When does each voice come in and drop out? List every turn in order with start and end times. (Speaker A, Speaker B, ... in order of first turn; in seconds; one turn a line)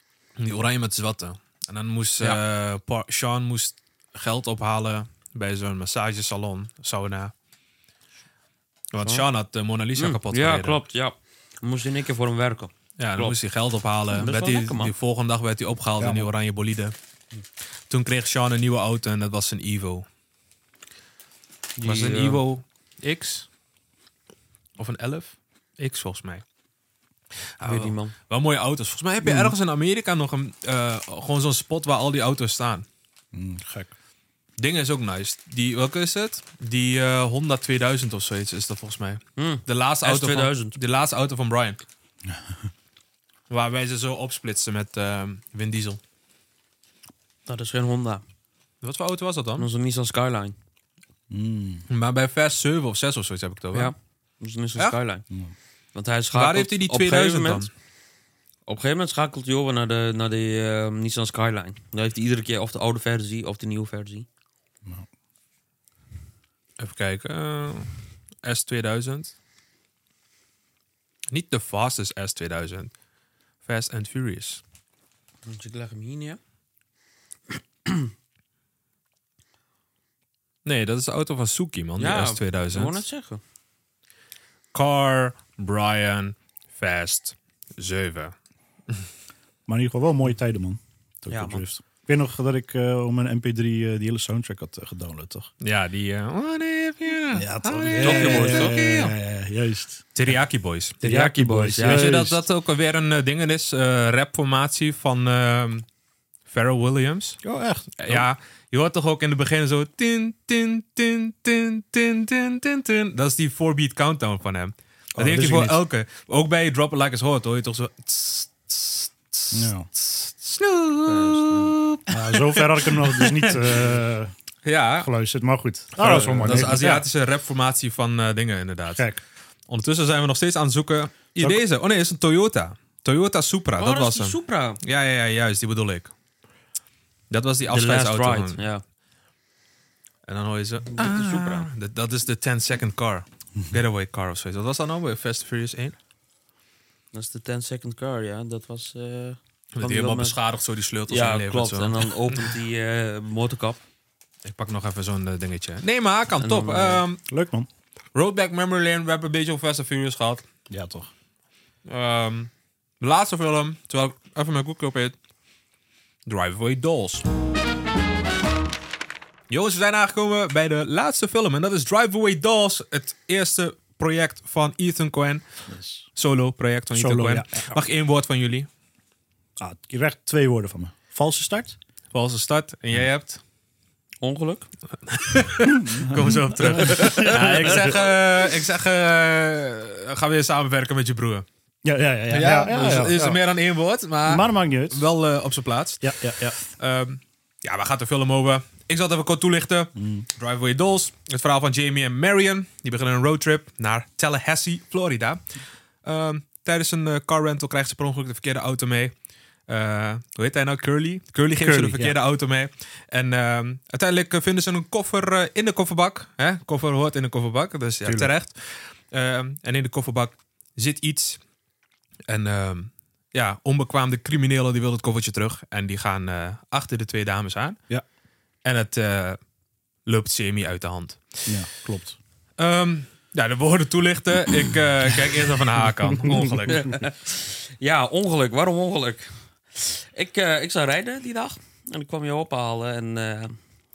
Speaker A: 0.4-7.3
Speaker A: 8.9-10.8
Speaker B: 9.0-9.2
Speaker B: 10.0-13.4
Speaker A: 13.0-16.9
Speaker B: 14.1-14.9
Speaker C: 16.0-16.3
Speaker A: 17.9-20.1
Speaker B: 21.8-22.4
Speaker A: 21.8-23.5
Speaker A: 24.8-26.4
Speaker A: 27.6-32.9
Speaker B: 27.6-28.1
Speaker C: 29.2-29.6
Speaker C: 33.3-33.9
Speaker A: 34.6-41.8
Speaker B: 39.4-40.8
Speaker C: 42.3-42.5
Speaker A: 43.5-46.0
Speaker B: 47.5-48.2
Speaker A: 48.8-49.7
Speaker B: 49.6-50.5
Speaker C: 51.3-51.9
Speaker A: 51.9-53.9
Speaker B: 53.7-55.2
Speaker B: 55.9-57.7
Speaker A: 56.3-57.7
Speaker B: 58.7-64.3
Speaker A: 66.8-67.9
Speaker A: 68.4-69.3
Speaker A: 71.3-72.9
Speaker A: 73.7-74.6
Speaker B: 75.5-76.4
Speaker A: 80.7-83.0
Speaker B: 82.0-83.4
Speaker A: 84.7-88.3
Speaker C: 89.7-95.5
Speaker B: 91.3-91.7
Speaker A: 95.6-99.2
Speaker C: 97.3-100.3
Speaker B: 98.0-98.8
Speaker A: 100.2-101.0
Speaker B: 101.0-102.1
Speaker C: 101.0-102.4
Speaker A: 101.8-105.8
Speaker A: 106.5-107.4
Speaker C: 107.4-108.3
Speaker A: 108.0-123.9
Speaker C: 115.2-115.8
Speaker C: 119.5-119.9
Speaker B: 121.0-121.8
Speaker C: 122.1-124.3
Speaker A: 124.7-125.1
Speaker C: 125.0-127.1
Speaker A: 126.0-129.1
Speaker B: 126.0-126.6
Speaker C: 128.9-129.2
Speaker A: 129.7-136.1
Speaker B: 133.8-134.8
Speaker A: 137.3-138.6
Speaker B: 137.7-138.8
Speaker A: 140.3-146.0
Speaker B: 140.9-141.7
Speaker B: 147.1-150.4
Speaker A: 149.8-152.5
Speaker B: 151.1-153.8
Speaker A: 154.4-157.2
Speaker B: 156.4-157.0
Speaker C: 157.3-157.7
Speaker A: 158.1-160.5
Speaker C: 160.7-161.1
Speaker A: 161.9-165.2
Speaker A: 166.3-167.2
Speaker A: 169.5-175.4
Speaker C: 175.7-176.1
Speaker A: 176.2-178.7
Speaker C: 176.9-177.8
Speaker C: 179.6-181.8
Speaker A: 182.1-183.4
Speaker B: 184.2-184.7
Speaker A: 185.1-191.5
Speaker C: 185.7-188.1
Speaker C: 191.8-193.4
Speaker A: 192.3-205.4
Speaker C: 194.3-195.0
Speaker C: 196.0-196.6
Speaker C: 200.0-200.3
Speaker A: 206.1-209.1
Speaker A: 209.7-221.4
Speaker C: 211.6-212.2
Speaker C: 218.0-218.3
Speaker A: 222.3-227.8
Speaker A: 228.7-229.4
Speaker A: 230.1-231.5
Speaker C: 231.5-232.2
Speaker A: 232.6-237.0
Speaker B: 236.7-243.6